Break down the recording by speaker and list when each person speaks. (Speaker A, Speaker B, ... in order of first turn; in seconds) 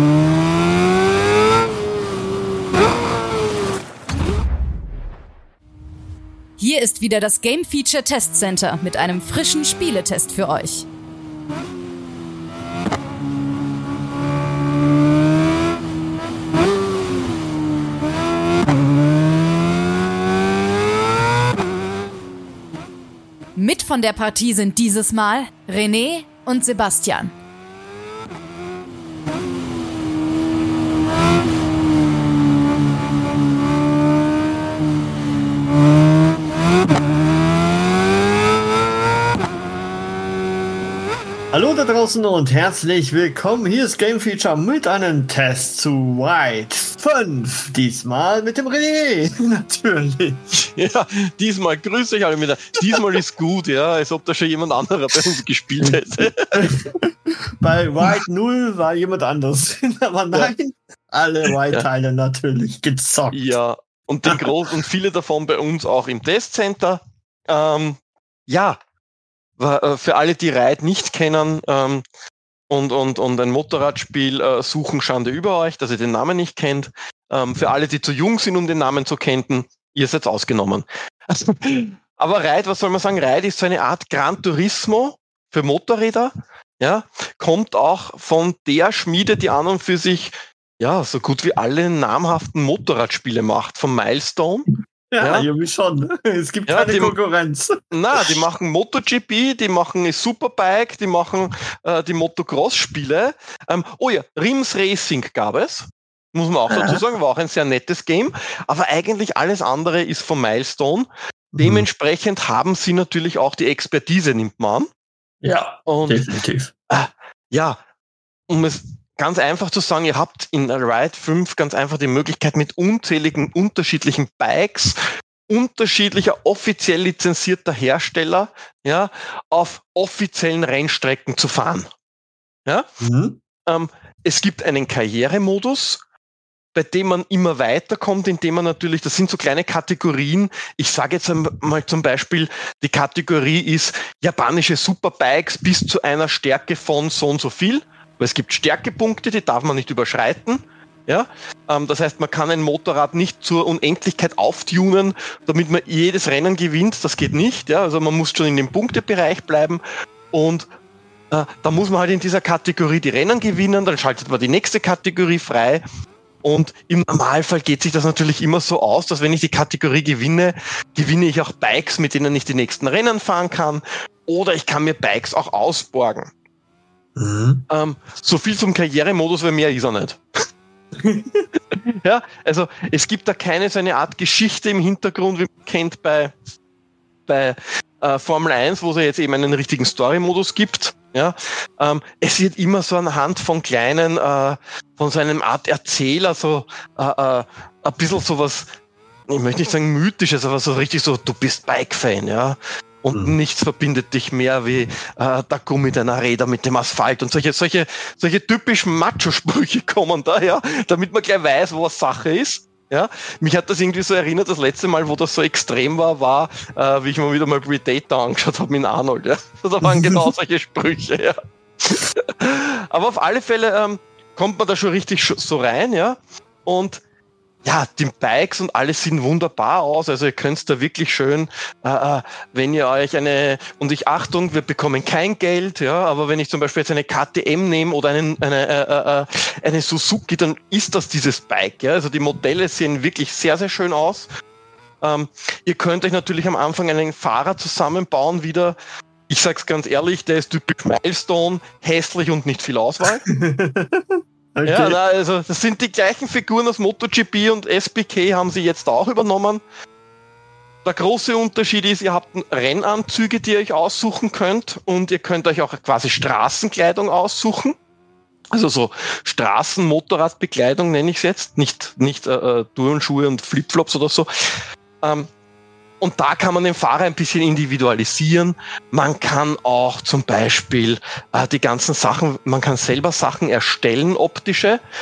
Speaker A: 6.6-10.8, 23.5-27.3
Speaker B: 41.5-50.4, 56.5-57.1, 57.6-63.5, 95.1-97.7, 106.7-107.0, 111.5-111.9, 115.4-116.7, 133.0-133.4, 177.2-177.6, 181.0-181.4, 253.2-254.0, 254.5-255.0
Speaker C: 50.5-56.7, 63.3-68.8, 69.6-72.0, 72.7-95.5, 96.7-97.2, 97.9-114.9, 115.8-116.2, 116.9-117.8, 118.5-131.9, 133.7-136.0, 136.7-160.7, 161.3-165.8, 166.4-176.3, 177.7-180.2, 181.7-186.3, 187.3-198.7, 199.3-227.0, 227.6-244.3, 245.0-248.8, 249.3-253.2, 254.6-259.6, 260.8-267.8, 268.5-274.3, 275.0-275.3, 276.0-284.8